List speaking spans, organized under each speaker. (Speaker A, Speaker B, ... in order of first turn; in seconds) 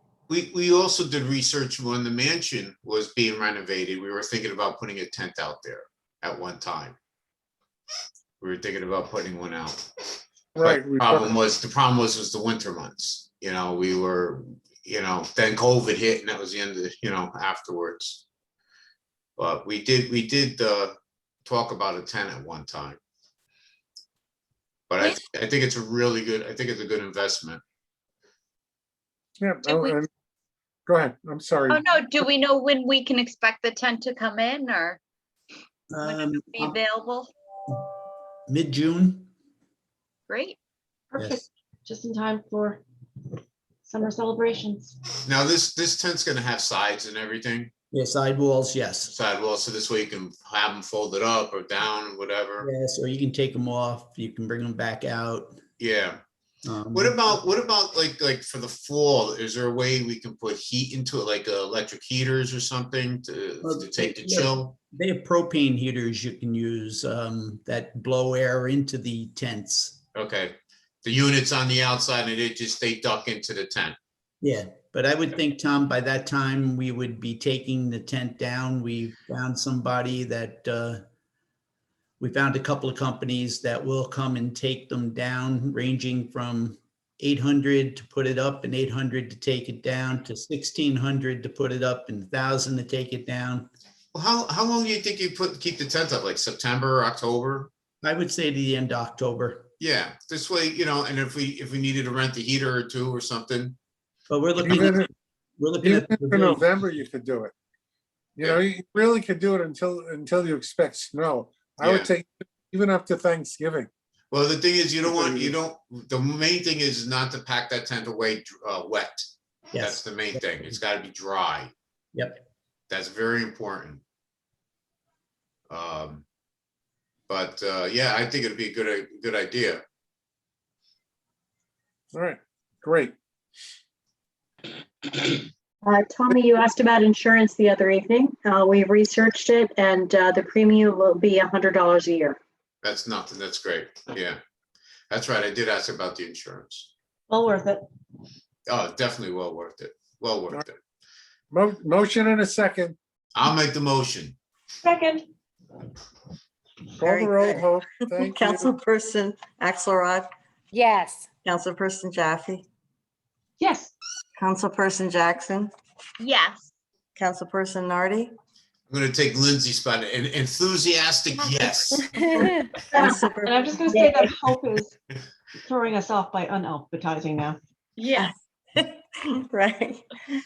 Speaker A: 0.3-7.0, 8.4-9.8, 10.6-18.2, 19.4-20.9, 21.4-23.0, 24.9-27.6, 45.2-47.7, 49.1-52.7, 55.8-56.2, 56.9-64.7, 70.1-74.0, 94.1-97.7, 99.8-103.8, 111.8-112.1, 114.3-121.7, 122.9-124.0, 125.7-126.2, 127.3-129.8, 142.8-144.4, 145.1-146.9, 148.7-150.8, 153.3-154.3, 168.9-172.1
Speaker B: 10.6-11.4, 29.4-30.1, 30.9-31.8, 104.6-105.1, 105.8-107.5, 108.4-113.9, 115.0-115.6, 132.1-133.1, 151.5-152.9, 157.0-158.7
Speaker C: 29.6-29.9, 31.7-35.0, 36.1-37.3, 40.3-40.6, 160.7-161.2, 166.2-166.7, 178.0-178.3
Speaker D: 35.9-36.8, 38.5-39.3, 47.9-49.1, 52.6-55.6, 56.6-57.4, 63.6-70.0, 74.4-81.0, 82.2-93.7, 98.0-99.7, 104.3-106.6, 119.7-120.8, 122.1-122.4
Speaker E: 41.1-42.8, 43.9-45.0, 147.3-147.8, 154.8-155.2, 163.6-163.9, 173.1-174.9, 175.6-177.6
Speaker F: 135.8-142.4
Speaker G: 157.1-157.6, 158.2-160.2, 161.4-162.6, 164.4-165.7, 167.2-168.3, 173.1-174.2, 178.2-180.0